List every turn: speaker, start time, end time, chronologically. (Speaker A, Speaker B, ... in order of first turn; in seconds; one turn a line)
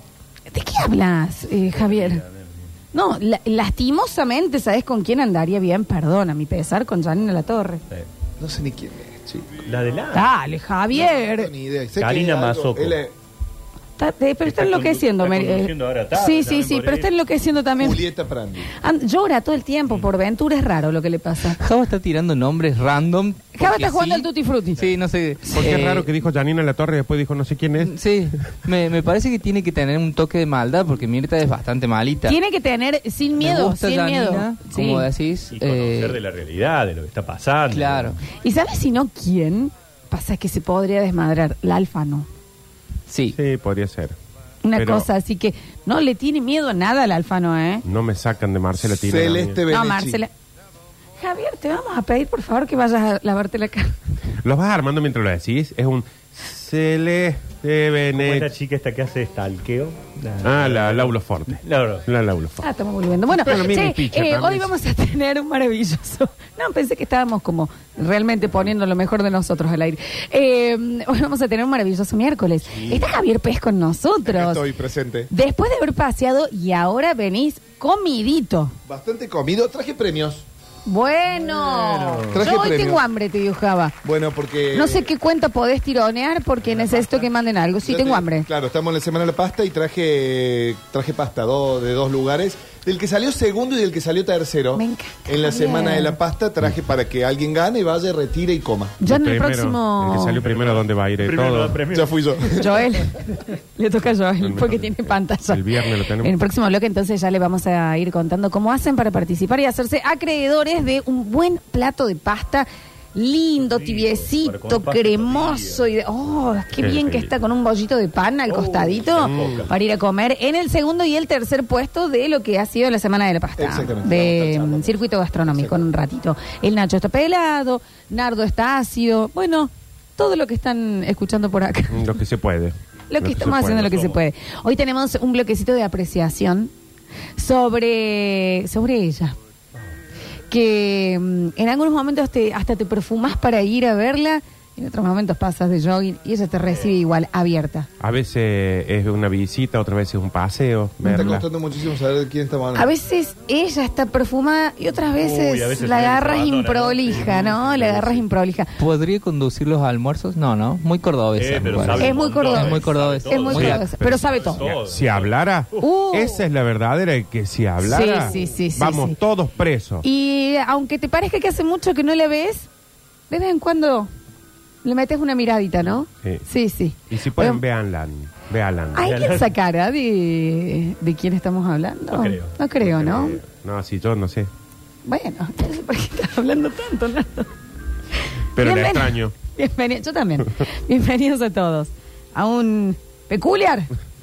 Speaker A: 0.5-2.2
Speaker B: 1.6-2.7
Speaker A: 2.9-7.8
Speaker C: 8.4-9.6
Speaker B: 9.7-10.3
Speaker A: 10.1-11.5
Speaker C: 10.9-13.1
Speaker B: 12.0-13.0
Speaker A: 14.0-18.0
Speaker B: 14.4-17.1
Speaker C: 17.8-18.7
Speaker A: 18.7-21.6
Speaker D: 21.5-26.1
Speaker A: 23.5-24.9
Speaker E: 25.5-27.9
Speaker D: 27.8-32.4
Speaker A: 32.3-35.1
Speaker D: 33.4-36.2
Speaker B: 35.5-38.2
Speaker D: 37.7-38.1
Speaker A: 38.4-42.3
Speaker D: 43.1-43.4
Speaker E: 43.3-44.1
Speaker A: 44.6-47.8
Speaker E: 44.7-45.1
Speaker E: 47.8-49.6
Speaker C: 48.8-50.2
Speaker A: 49.7-50.3
Speaker A: 51.2-54.0
Speaker E: 54.4-58.5
Speaker B: 58.1-62.0
Speaker E: 60.4-62.6
Speaker A: 62.6-74.6
Speaker E: 63.3-64.7
Speaker C: 72.7-73.1
Speaker C: 74.2-75.3
Speaker A: 75.3-78.7
Speaker C: 78.8-80.4
Speaker A: 80.8-84.0
Speaker C: 82.3-83.0
Speaker C: 84.0-85.1
Speaker A: 84.7-88.5
Speaker C: 86.8-87.2
Speaker C: 87.8-99.0
Speaker A: 94.7-96.2
Speaker A: 99.0-100.4
Speaker E: 99.0-101.8
Speaker B: 100.3-102.6
Speaker C: 101.9-102.8
Speaker A: 102.6-132.1
Speaker E: 104.4-106.3
Speaker B: 113.6-115.8
Speaker E: 116.8-117.3
Speaker C: 118.5-119.7
Speaker E: 119.2-119.6
Speaker C: 123.6-125.8
Speaker E: 131.9-133.9
Speaker A: 133.1-136.7
Speaker B: 133.8-134.2
Speaker A: 137.4-139.3
Speaker A: 140.5-147.9
Speaker B: 146.7-146.9
Speaker E: 148.0-151.5
Speaker C: 151.0-152.9
Speaker A: 151.1-151.4
Speaker A: 152.7-158.7
Speaker B: 155.2-158.2
Speaker D: 158.8-163.9
Speaker B: 161.3-165.9
Speaker A: 161.9-164.6
Speaker E: 163.6-170.1
Speaker A: 165.8-166.4
Speaker A: 167.8-169.2
Speaker A: 170.0-172.7
Speaker A: 173.3-174.1
Speaker A: 174.8-177.6
Speaker E: 177.1-179.1
Speaker A: 178.9-183.4
Speaker B: 179.0-179.5
Speaker B: 182.1-182.5
Speaker E: 182.8-184.5
Speaker A: 185.0-187.5
Speaker E: 188.6-189.3
Speaker A: 188.6-193.9